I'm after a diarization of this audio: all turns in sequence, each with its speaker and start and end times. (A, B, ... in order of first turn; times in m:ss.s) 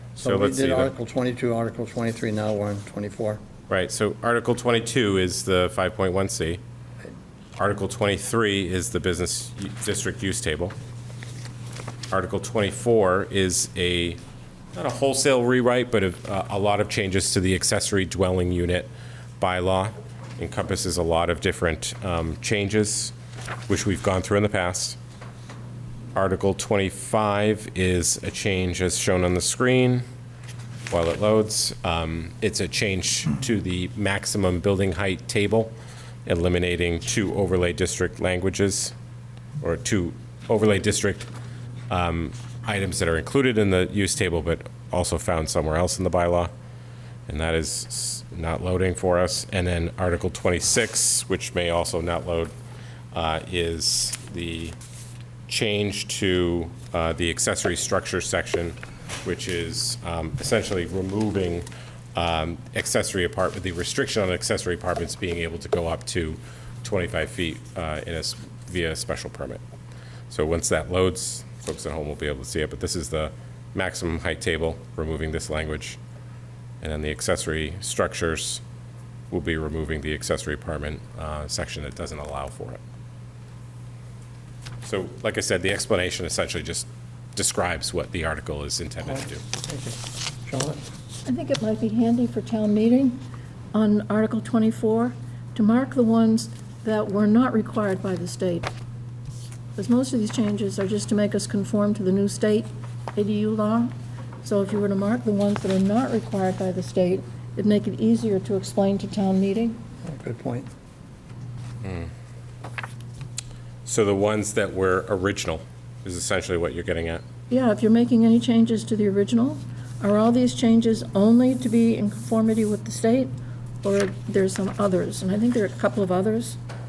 0:00.2-0:00.9 A
0:00.2-0:03.4 B
0:03.7-0:06.6 A
0:07.6-0:10.7 A
0:12.1-0:14.2 A
0:14.7-0:23.1 A
0:23.7-0:25.0 A
0:26.1-0:30.0 A
0:30.9-0:35.7 A
0:36.2-0:38.9 A
0:39.6-0:41.3 A
0:41.9-0:46.5 A
0:47.3-0:52.5 A
0:53.1-0:54.7 A
0:55.5-1:09.6 A
1:10.3-1:16.0 A
1:16.8-1:18.6 A
1:19.3-1:22.8 A
1:24.8-1:29.4 A
1:29.0-1:30.8 B
1:31.2-1:38.7 C
1:39.8-1:49.8 C
1:50.0-1:50.7 B
1:51.8-1:52.1 A
1:53.8-1:57.2 A
1:57.5-2:03.3 C
2:03.8-2:06.6 C